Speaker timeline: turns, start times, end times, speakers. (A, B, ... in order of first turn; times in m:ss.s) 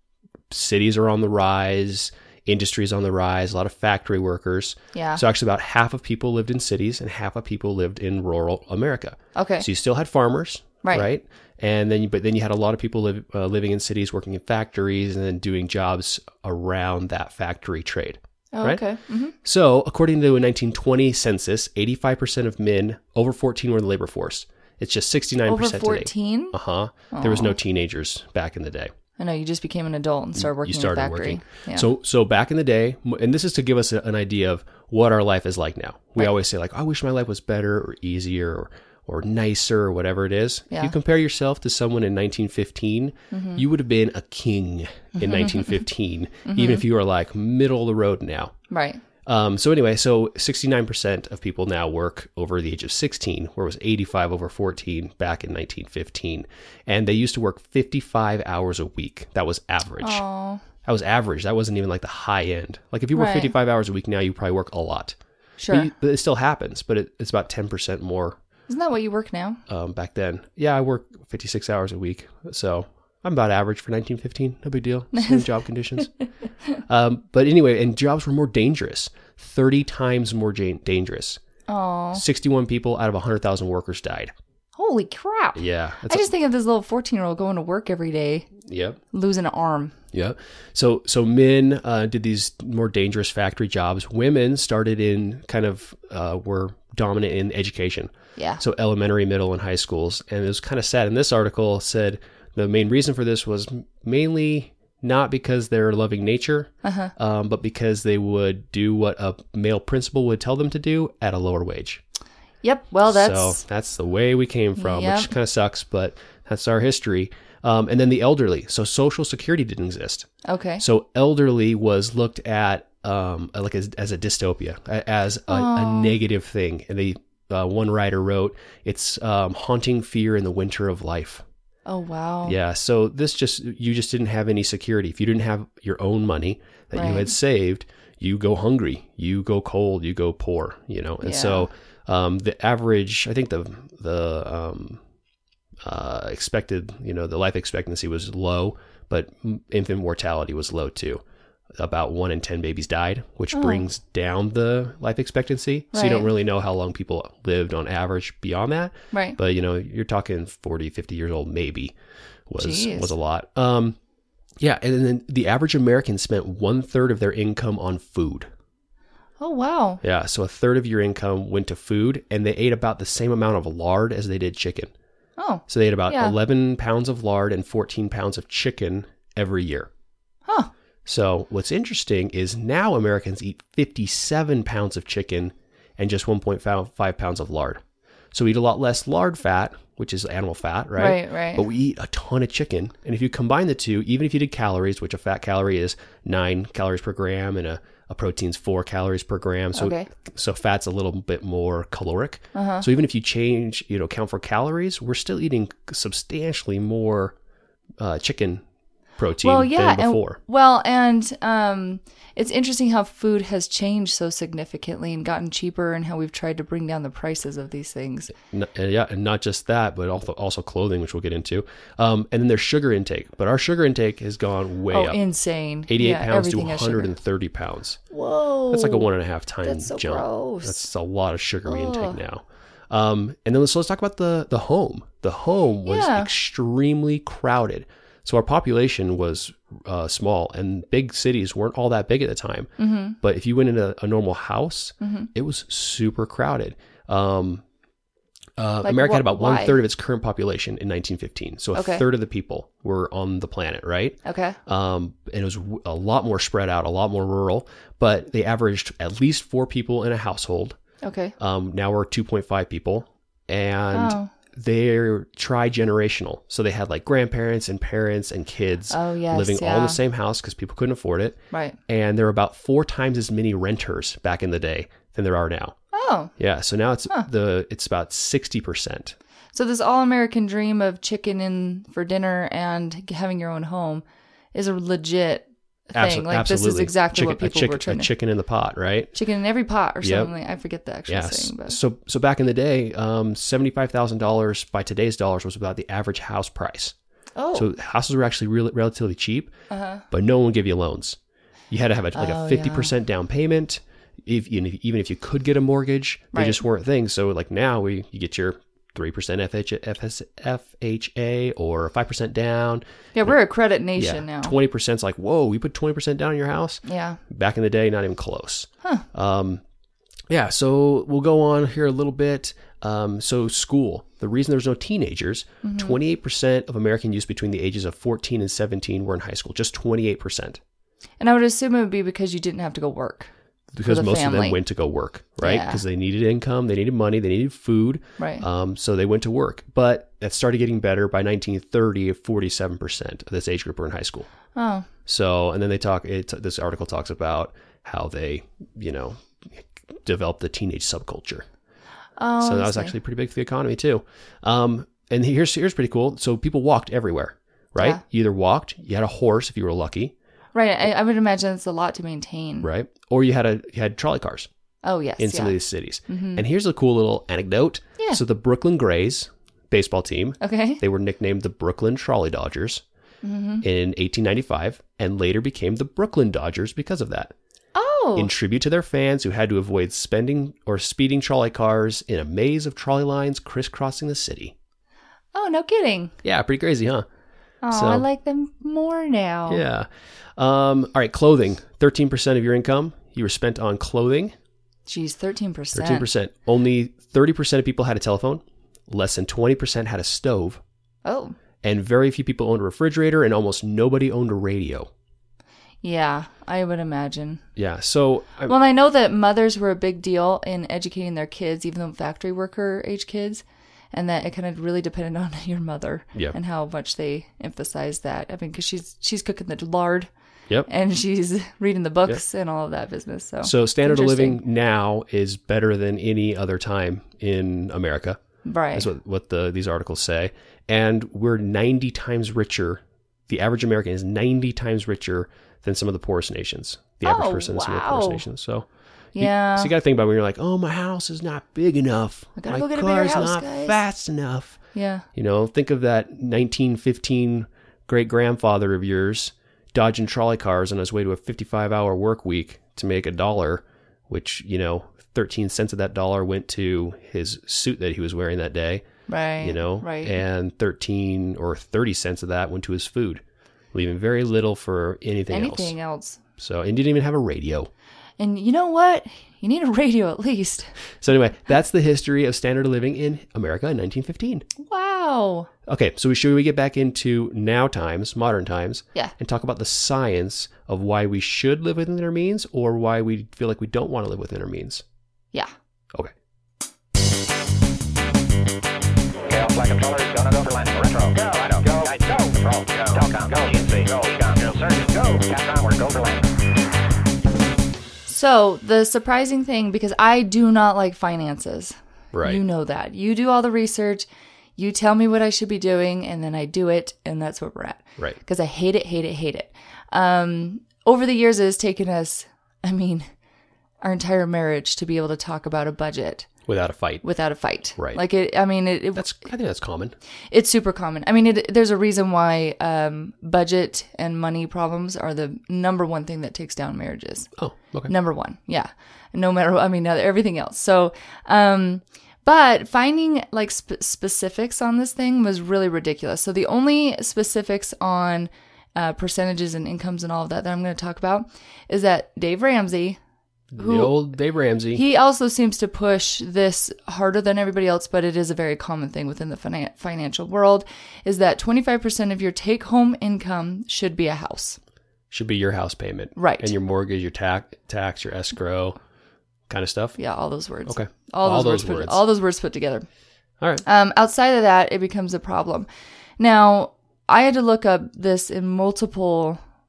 0:00.5-0:18.8 A
0:04.9-0:05.2 B
0:09.3-0:09.7 B
0:10.8-0:11.1 B
0:18.5-0:19.3 B
0:19.4-0:28.9 A
0:25.4-0:26.6 B
0:27.1-0:27.6 B
0:29.2-0:31.9 B
0:30.4-0:48.5 A
0:43.3-0:43.6 B
0:45.2-0:45.8 B
0:46.4-0:46.8 B
0:48.7-0:49.0 B
0:49.2-1:00.2 A
1:00.0-1:00.6 B
1:00.8-1:05.2 A
1:03.1-1:03.5 B
1:05.6-1:05.9 B
1:05.7-1:08.4 A
1:08.7-1:09.6 B
1:09.7-1:16.1 A
1:15.1-1:15.4 B
1:16.9-1:21.4 A
1:21.7-1:22.2 B
1:22.1-1:24.3 A
1:24.8-1:28.5 B
1:25.6-1:26.3 A
1:28.6-1:29.0 A
1:29.1-1:30.0 B
1:30.1-1:52.0 A
1:38.4-1:38.6 B
1:46.8-1:47.1 B
1:52.6-1:53.6 B
1:53.0-2:00.3 A
1:54.8-1:55.3 B
2:00.4-2:00.8 B
2:00.8-2:11.4 A
2:05.5-2:06.2 B
2:11.8-2:12.6 B
2:12.4-2:25.0 A
2:16.9-2:17.3 B
2:21.2-2:21.7 B
2:25.8-2:31.2 A
2:31.8-2:41.9 A
2:33.5-2:33.8 B
2:35.9-2:36.3 B
2:39.1-2:39.4 B
2:42.5-2:44.0 A
2:42.6-2:43.1 B
2:44.6-2:48.5 A
2:49.4-2:50.0 B
2:50.0-2:54.9 A
2:55.4-2:56.3 B
2:55.7-2:59.9 A
3:01.0-3:07.8 A
3:08.3-3:27.3 A
3:11.0-3:11.6 B
3:19.7-3:20.1 B
3:22.5-3:22.8 B
3:28.0-3:28.6 A
3:29.2-3:30.4 A
3:29.4-3:38.3 B
3:38.3-3:45.2 A
3:44.9-3:47.1 B
3:45.9-3:48.0 A
3:48.1-3:49.1 B
3:48.7-4:02.7 A
3:49.6-3:50.8 B
3:51.6-3:52.2 B
3:55.8-3:56.3 B
4:02.8-4:03.2 B
4:03.2-4:07.6 A
4:05.0-4:05.3 B
4:08.6-4:20.8 A
4:08.8-4:09.8 B
4:11.7-4:12.0 B
4:14.2-4:14.6 B
4:21.0-4:21.3 B
4:21.4-4:35.8 A
4:23.9-4:24.3 B
4:28.9-4:30.0 B
4:31.5-4:31.8 B
4:35.9-4:36.3 B
4:36.4-4:39.1 A
4:39.5-4:48.1 B
4:45.9-4:49.1 A
4:49.1-4:51.8 B
4:50.0-4:50.3 A
4:51.1-4:56.9 A
4:57.4-4:57.7 B
4:57.5-4:59.5 A
4:59.7-5:00.0 B
5:00.1-5:01.2 A
5:01.7-5:13.4 A
5:02.1-5:02.9 B
5:06.3-5:06.6 B
5:13.1-5:14.6 B
5:14.0-5:19.6 A
5:16.8-5:17.2 B
5:20.3-5:30.6 A
5:25.6-5:26.0 B
5:31.2-5:33.3 B
5:33.7-5:44.3 A
5:33.8-5:34.6 B
5:35.4-5:35.8 B
5:38.2-5:38.4 B
5:44.5-5:44.9 B
5:45.0-5:51.5 A
5:52.2-5:52.9 B
5:52.4-6:00.1 A
6:00.5-6:02.7 B
6:02.6-6:04.5 A
6:04.8-6:05.6 B
6:05.2-6:12.8 A
6:06.1-6:06.4 B
6:10.4-6:10.8 B
6:13.2-6:13.6 B
6:13.6-6:17.3 A
6:17.7-6:18.3 B
6:18.2-6:24.5 A
6:25.3-6:26.1 B
6:26.2-6:27.0 A
6:27.6-6:29.6 B
6:27.7-6:28.0 A
6:29.5-6:34.3 A
6:34.9-6:36.0 B
6:35.7-6:40.6 A
6:41.0-6:41.4 B
6:41.6-6:44.9 A
6:45.8-6:47.4 B
6:47.6-6:48.5 A
6:48.4-7:00.1 B
7:00.7-7:04.4 B
7:03.4-7:08.2 A
7:08.4-7:08.9 B
7:08.7-7:24.6 A
7:17.0-7:18.2 B
7:19.1-7:19.7 B
7:22.4-7:23.8 B
7:24.7-7:25.0 B
7:25.1-7:38.8 A
7:39.1-7:40.2 B
7:39.4-7:45.7 A
7:45.3-7:46.2 B
7:46.4-7:47.7 A
7:48.2-7:50.7 B
7:51.0-7:54.4 A
7:54.6-7:55.5 B
7:55.6-8:04.8 A
8:09.3-8:16.3 C
8:18.1-8:33.1 B
8:22.1-8:22.4 A
8:33.8-8:36.3 B
8:36.5-8:37.0 A
8:37.0-8:39.3 B
8:39.0-8:40.0 A
8:40.3-8:47.3 B
8:47.4-8:47.9 A
8:47.8-9:03.0 B
9:03.5-9:04.8 A
9:03.6-9:04.0 B
9:04.7-9:14.6 B
9:15.1-9:18.8 A
9:16.2-9:16.5 B
9:19.5-9:20.0 A
9:20.0-9:22.8 B
9:20.6-9:22.0 A
9:23.6-9:29.4 B